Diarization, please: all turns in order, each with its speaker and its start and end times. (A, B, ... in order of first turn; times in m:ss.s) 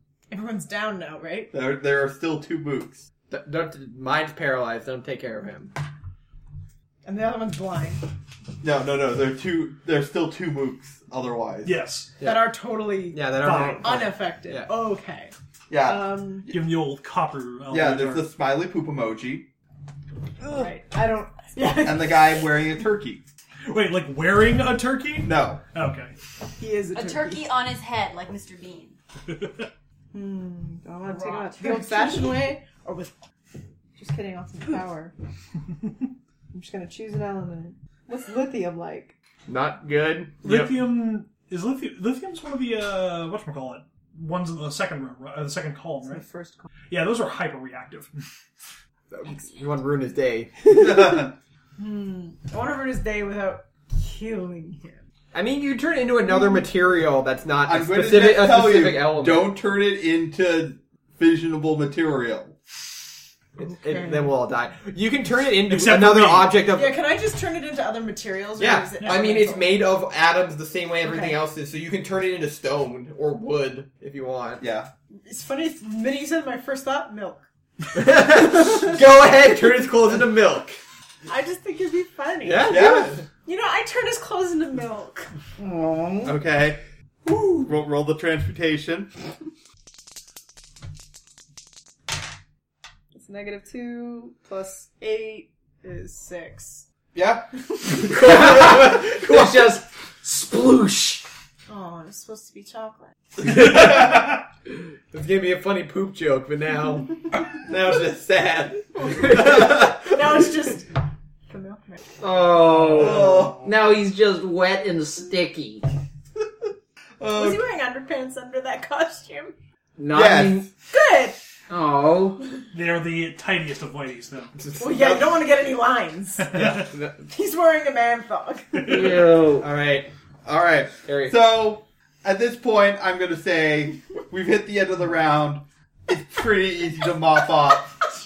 0:00.3-0:01.5 A
0:01.5-0:03.0 B
0:03.3-0:05.7 C
0:07.0-0:08.0 A
0:08.6-0:11.7 B
0:11.6-0:12.1 D
0:12.2-0:12.6 C
0:12.2-0:16.5 A
0:13.1-0:14.7 C
0:13.4-0:14.0 D
0:15.7-0:16.2 B
0:16.5-0:18.3 D
0:17.7-0:19.5 B
0:20.5-0:22.4 A
0:21.8-0:23.2 B
0:23.6-0:26.1 D
0:25.2-0:25.6 B
0:26.6-0:27.5 A
0:26.9-0:29.0 E
0:30.1-0:33.1 A
0:31.0-0:32.4 E
0:34.0-0:35.1 A
0:36.5-0:39.1 A
0:39.5-0:40.8 C
0:40.4-0:46.2 D
0:46.0-0:46.7 A
0:46.9-0:48.2 D
0:49.1-0:51.2 C
0:50.7-0:51.3 B
0:51.8-0:55.0 A
0:55.3-0:59.5 C
0:57.6-1:02.5 B
1:03.6-1:07.0 C
1:03.6-1:04.3 A
1:05.7-1:06.6 D
1:06.7-1:09.8 A
1:08.6-1:14.6 C
1:09.0-1:09.2 D
1:11.0-1:11.4 A
1:14.6-1:14.9 B
1:15.2-1:17.4 A
1:17.9-1:20.8 C
1:21.3-1:22.9 A
1:22.4-1:23.3 C
1:22.7-1:23.1 B
1:23.4-1:25.3 A
1:25.6-1:26.3 F
1:26.2-1:26.8 B
1:27.6-1:29.1 B
1:33.1-1:36.8 A
1:37.1-1:37.4 B
1:38.0-1:41.2 F
1:41.7-1:43.2 A
1:43.4-1:44.4 C
1:43.5-1:44.2 D
1:45.1-1:50.5 C
1:49.2-1:50.9 A
1:51.5-1:52.0 A
1:52.2-1:55.8 F
1:53.0-1:53.6 B
1:57.2-1:57.6 B
1:57.3-1:59.5 A
2:00.0-2:00.7 F
2:00.1-2:00.7 B
2:00.8-2:01.4 A
2:01.7-2:02.4 F
2:02.7-2:04.5 D
2:04.5-2:05.4 C
2:04.8-2:06.6 A
2:06.4-2:06.9 D
2:06.5-2:07.3 C
2:07.2-2:08.9 A
2:08.7-2:09.1 D
2:08.8-2:09.7 F
2:08.9-2:10.1 C
2:10.4-2:18.0 B
2:11.0-2:11.4 C